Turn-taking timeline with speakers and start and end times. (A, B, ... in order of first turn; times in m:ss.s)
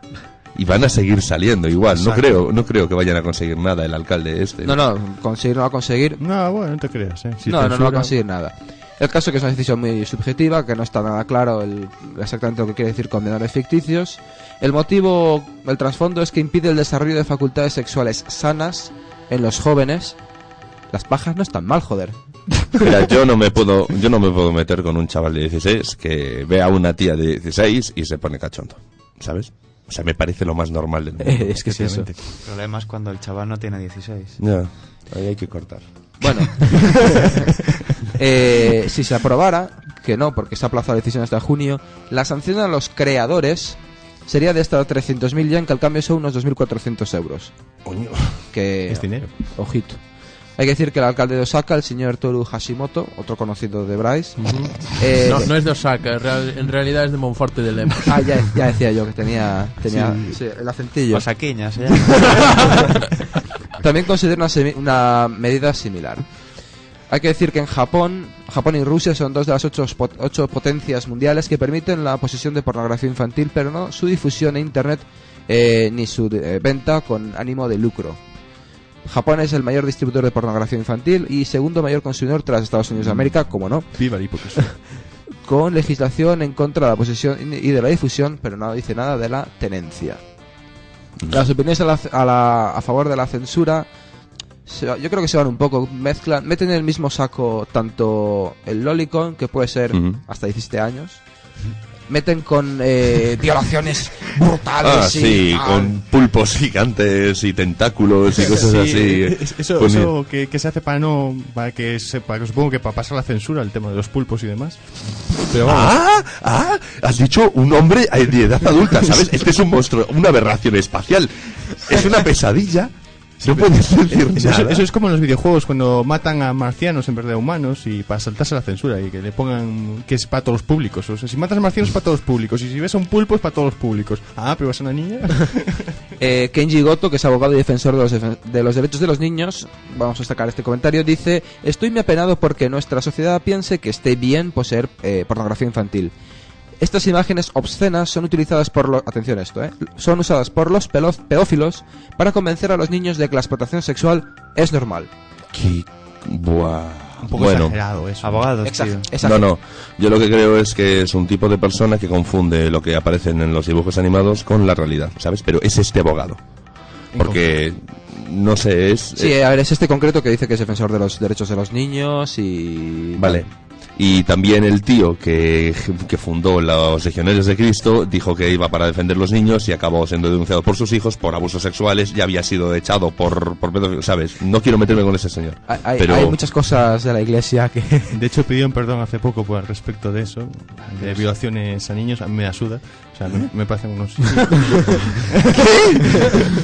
0:00.5-0:04.8 A
0:01.9-0:02.2 B
0:04.6-0:06.2 C
0:06.2-0:08.1 B
0:07.4-0:20.2 C
0:20.9-0:22.7 C
0:22.8-0:31.4 A
0:31.2-0:32.1 C
0:31.4-0:32.3 B
0:32.4-0:34.4 D
0:34.4-0:35.9 A
0:36.2-0:37.4 C
0:38.1-0:47.5 C
0:47.8-0:49.3 B
0:48.5-0:50.0 C
0:50.6-0:55.5 C
0:54.4-0:54.7 B
0:55.2-0:58.6 E
0:58.1-1:01.2 C
1:01.1-1:02.8 D
1:03.8-1:06.2 C
1:07.1-1:18.2 C
1:19.0-1:23.9 C
1:23.0-1:23.3 A
1:23.9-1:25.0 B
1:25.4-1:30.2 C
1:31.3-1:33.9 C
1:34.6-1:41.2 C
1:39.9-1:40.2 A
1:42.1-1:45.9 C
1:44.8-1:50.1 A
1:48.4-1:55.9 B
1:55.5-2:04.8 A
2:04.3-2:16.0 B
2:16.2-2:26.1 C
2:26.8-2:35.1 C
2:35.5-2:37.8 A
2:37.2-2:38.5 B
2:38.2-2:39.1 D
2:38.6-2:39.4 C
2:39.2-2:46.4 A
2:47.1-2:47.6 B
2:47.1-2:49.3 A
2:49.2-2:53.4 C
2:53.2-3:06.3 A
3:05.7-3:08.2 C
3:08.1-3:15.4 B
3:15.6-3:16.4 C
3:16.0-3:16.4 B